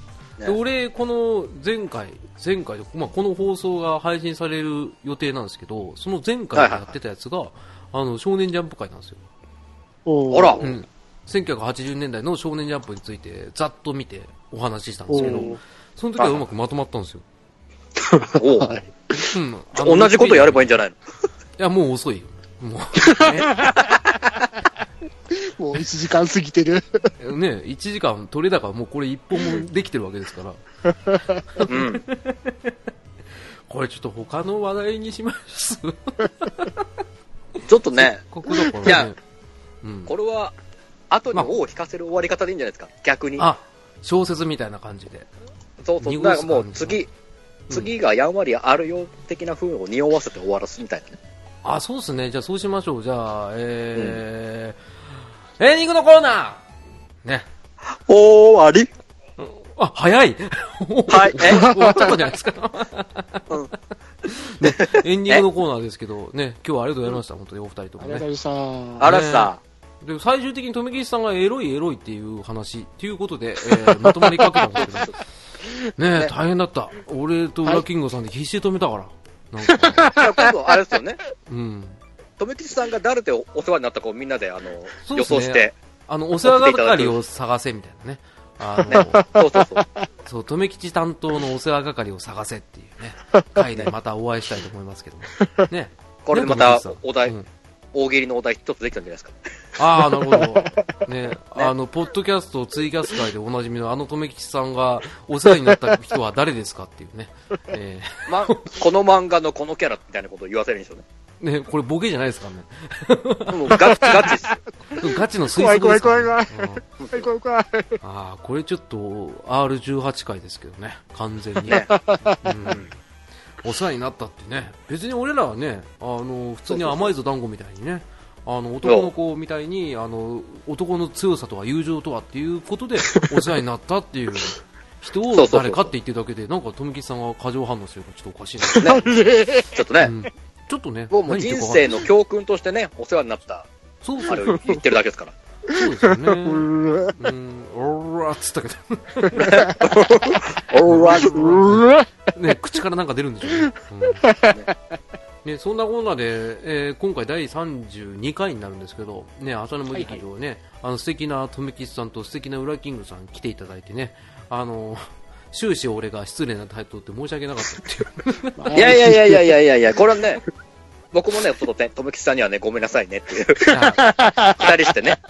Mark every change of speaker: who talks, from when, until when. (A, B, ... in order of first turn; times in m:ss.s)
0:00.4-0:09.3 A
0:06.6-0:06.9 B
0:10.1-0:10.7 C
0:10.3-0:10.6 B
0:10.6-0:17.2 A
0:15.1-0:15.6 C
0:15.1-0:15.5 B
0:16.2-0:16.5 B
0:18.0-0:19.3 C
0:18.4-0:18.7 B
0:19.3-0:20.8 A
0:19.8-0:21.0 B
0:21.6-0:23.7 A
0:23.1-0:24.0 C
0:25.3-0:27.0 C
0:27.2-0:30.6 A
0:31.1-0:31.4 C
0:31.6-0:32.8 A
0:31.7-0:32.0 B
0:33.7-0:36.9 A
0:37.6-0:38.2 B
0:38.0-0:39.2 A
0:38.8-0:39.1 B
0:39.8-0:40.1 A
0:40.1-0:40.6 B
0:41.1-0:43.5 B
0:43.4-0:45.3 A
0:45.8-0:47.1 B
0:46.0-0:47.0 A
0:47.7-0:51.2 B
0:51.6-0:54.8 A
0:54.0-0:54.2 B
0:55.6-0:56.6 A
0:57.9-0:58.9 B
0:59.4-1:03.5 A
1:01.1-1:01.8 B
1:01.5-1:02.2 C
1:04.2-1:08.3 A
1:04.6-1:05.5 B
1:08.0-1:09.2 C
1:09.0-1:09.6 B
1:09.0-1:15.1 A
1:13.7-1:14.7 C
1:14.8-1:15.1 B
1:16.0-1:20.2 A
1:19.7-1:21.0 C
1:20.1-1:21.2 B
1:21.5-1:22.0 A
1:22.4-1:25.8 B
1:25.0-1:29.3 A
1:26.4-1:27.1 B
1:28.9-1:29.8 B
1:28.9-1:29.9 C
1:30.3-1:37.5 A
1:36.2-1:37.4 B
1:37.9-1:39.4 B
1:39.8-1:48.8 A
1:40.0-1:41.0 C
1:45.7-1:45.9 C
1:48.3-1:51.0 B
1:51.4-1:54.3 A
1:53.5-1:54.6 B
1:53.8-1:58.0 C
1:54.9-1:56.8 A
1:57.0-1:57.3 B
1:58.0-2:01.8 A
2:01.7-2:02.6 C
2:02.4-2:02.9 A
2:03.6-2:19.2 A
2:06.7-2:07.1 B
2:08.8-2:09.1 B
2:15.3-2:15.9 B
2:18.7-2:19.8 C
2:19.7-2:20.1 B
2:20.0-2:22.0 A
2:21.1-2:23.7 B
2:24.0-2:24.8 A
2:24.3-2:25.3 B
2:24.5-2:24.8 C
2:25.7-2:29.7 A
2:25.8-2:27.2 C
2:29.2-2:30.3 C
2:29.4-2:31.6 B
2:30.9-2:34.4 A
2:31.2-2:32.1 C
2:34.2-2:34.8 C
2:35.4-2:48.9 A
2:39.9-2:40.2 C
2:48.6-2:49.6 C
2:48.7-2:50.4 B
2:51.1-2:53.7 B
2:53.7-2:54.0 A
2:53.7-2:54.9 C
2:54.6-2:55.2 B